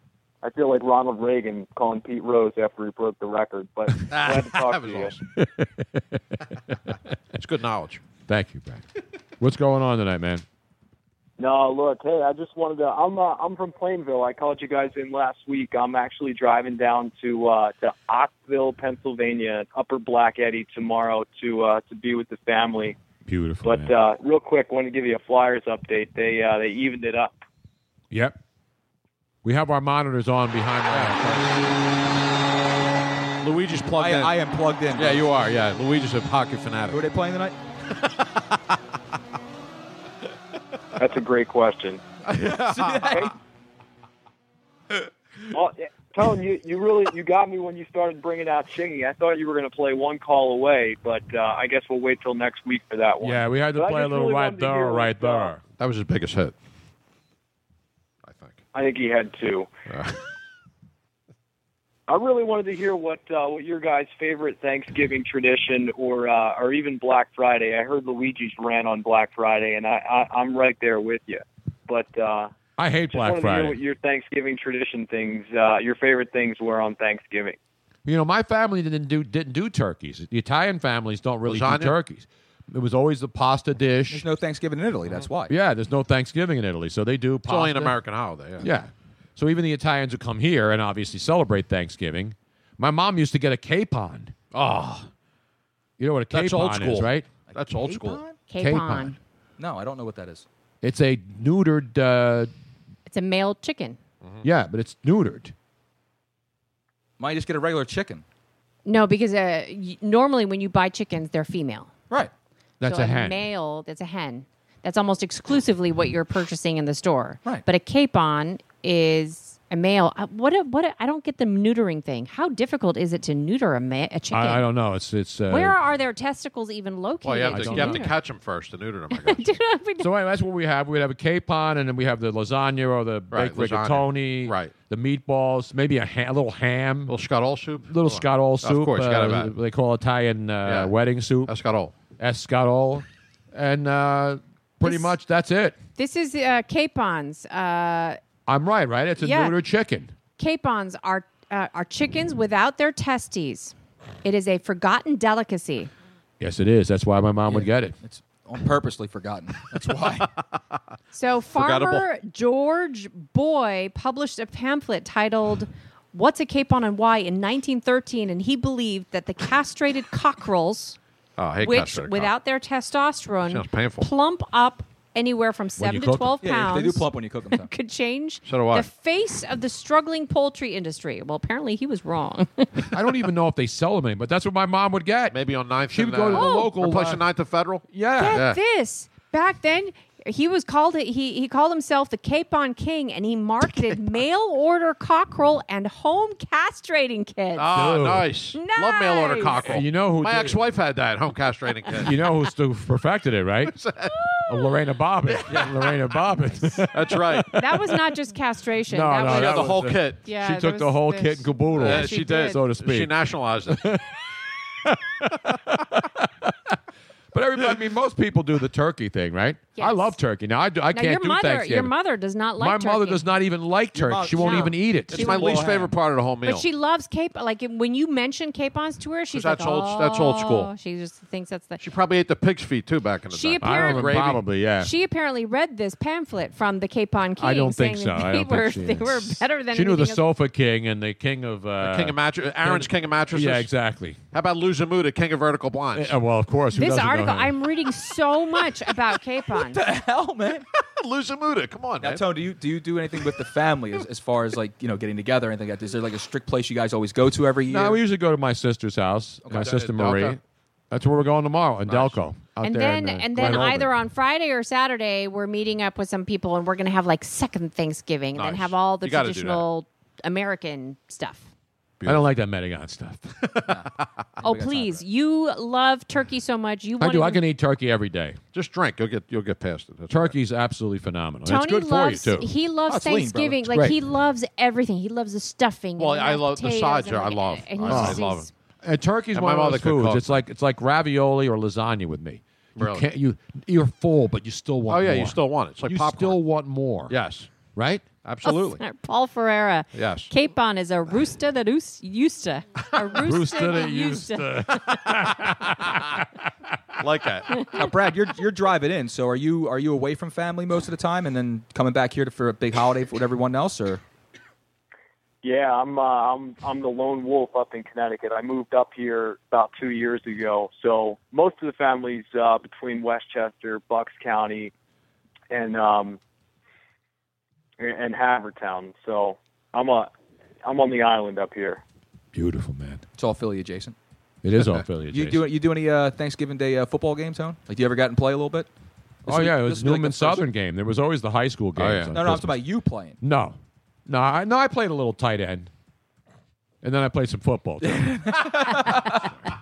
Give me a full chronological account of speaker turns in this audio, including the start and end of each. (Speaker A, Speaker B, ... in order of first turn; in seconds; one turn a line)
Speaker A: 0.4-5.1
Speaker B: 4.0-5.2
Speaker C: 5.3-6.9
Speaker B: 7.3-8.0
Speaker C: 8.3-8.8
Speaker C: 9.4-10.4
Speaker A: 11.4-23.0
Speaker C: 23.3-23.9
Speaker A: 23.6-27.4
Speaker C: 28.1-28.4
Speaker C: 29.4-31.5
Speaker B: 30.9-31.2
Speaker B: 33.4-34.4
Speaker D: 33.9-35.2
Speaker B: 34.9-37.0
Speaker D: 36.9-37.5
Speaker B: 38.0-38.6
Speaker A: 41.0-42.0
Speaker B: 42.3-43.3
Speaker D: 42.3-43.3
Speaker A: 45.5-55.5
Speaker C: 53.2-55.6
Speaker B: 55.8-56.5
Speaker B: 58.2-58.6
Speaker A: 58.7-59.7
Speaker B: 59.9-60.2
Speaker A: 62.1-72.5
Speaker C: 72.8-73.8
Speaker A: 73.1-77.6
Speaker C: 78.0-84.2
Speaker B: 81.5-81.9
Speaker D: 84.1-85.5
Speaker C: 85.5-88.0
Speaker B: 87.5-88.7
Speaker C: 88.6-94.3
Speaker B: 94.5-95.1
Speaker C: 96.0-97.3
Speaker B: 96.3-98.2
Speaker D: 97.5-98.4
Speaker E: 98.5-99.2
Speaker C: 98.6-99.1
Speaker D: 99.6-100.5
Speaker C: 100.8-102.5
Speaker E: 103.1-104.0
Speaker C: 104.4-105.5
Speaker D: 107.2-108.2
Speaker E: 108.8-111.9
Speaker C: 112.8-113.5
Speaker E: 112.8-124.6
Speaker C: 124.3-125.8
Speaker E: 125.5-128.2
Speaker B: 127.2-129.4
Speaker C: 127.5-128.1
Speaker E: 129.1-130.1
Speaker C: 130.0-137.1
Speaker B: 133.3-134.7
Speaker B: 137.1-139.5
Speaker C: 137.9-141.5
Speaker B: 140.6-140.9
Speaker B: 141.4-141.9
Speaker C: 142.2-145.8
Speaker E: 144.8-145.2
Speaker E: 146.0-148.2
Speaker C: 148.5-150.1
Speaker E: 149.2-149.6
Speaker E: 150.4-155.9
Speaker C: 156.4-157.9
Speaker D: 157.5-160.3
Speaker E: 161.1-171.0
Speaker B: 161.5-162.1
Speaker B: 171.4-172.3
Speaker E: 171.6-182.9
Speaker B: 173.4-174.1
Speaker C: 175.8-176.3
Speaker D: 176.4-177.7
Speaker B: 178.4-178.9
Speaker C: 182.9-187.2
Speaker B: 185.3-188.6
Speaker E: 186.3-186.7
Speaker C: 187.9-188.4
Speaker E: 188.2-197.7
Speaker B: 197.6-202.1
Speaker C: 197.7-198.3
Speaker E: 198.5-199.7
Speaker C: 199.6-200.6
Speaker C: 202.0-203.8
Speaker B: 203.7-204.1
Speaker C: 204.5-207.8
Speaker B: 205.5-205.8
Speaker B: 206.9-207.6
Speaker E: 207.5-212.6
Speaker C: 208.9-213.1
Speaker B: 209.2-210.2
Speaker B: 211.8-213.9
Speaker C: 213.7-214.1
Speaker C: 214.8-216.7
Speaker C: 217.3-221.9
Speaker E: 219.8-220.2
Speaker E: 220.9-223.2
Speaker C: 222.6-225.4
Speaker D: 223.9-225.9
Speaker E: 224.3-225.6
Speaker B: 225.1-226.7
Speaker E: 226.4-231.8
Speaker B: 229.3-230.7
Speaker B: 231.8-234.4
Speaker E: 233.3-240.2
Speaker C: 233.6-234.9
Speaker C: 237.4-244.2
Speaker B: 241.8-243.7
Speaker B: 244.3-246.1
Speaker C: 245.9-247.5
Speaker E: 246.7-249.8
Speaker D: 249.6-250.7
Speaker B: 250.8-252.4
Speaker D: 252.0-258.0
Speaker C: 257.7-260.4
Speaker B: 259.5-260.4
Speaker C: 260.9-263.9
Speaker B: 261.9-262.2
Speaker E: 262.6-271.5
Speaker B: 268.3-269.6
Speaker B: 272.0-272.3
Speaker C: 272.0-273.7
Speaker B: 274.0-274.2
Speaker D: 274.4-275.0
Speaker E: 274.4-277.4
Speaker C: 277.0-278.4
Speaker B: 278.5-280.4
Speaker C: 280.1-282.5
Speaker E: 281.4-288.5
Speaker D: 282.9-283.7
Speaker C: 283.7-284.0
Speaker B: 286.0-288.5
Speaker C: 287.9-288.2
Speaker C: 288.8-297.1
Speaker B: 289.3-290.4
Speaker B: 292.8-293.1
Speaker B: 294.9-296.4
Speaker B: 297.1-297.5
Speaker C: 297.7-298.0
Speaker B: 298.2-298.8
Speaker E: 298.4-305.4
Speaker B: 299.9-300.3
Speaker C: 303.2-306.3
Speaker B: 307.0-307.6
Speaker D: 307.7-314.0
Speaker A: 315.4-324.7
Speaker A: 325.5-326.2
Speaker A: 327.8-330.1
Speaker A: 330.6-331.8
Speaker C: 332.3-333.0
Speaker D: 333.1-333.9
Speaker C: 334.4-335.4
Speaker D: 335.1-338.7
Speaker D: 339.2-340.4
Speaker C: 339.2-342.6
Speaker B: 341.8-342.2
Speaker D: 342.1-343.2
Speaker C: 343.2-345.7
Speaker C: 346.8-348.2
Speaker D: 347.8-349.3
Speaker E: 348.8-349.2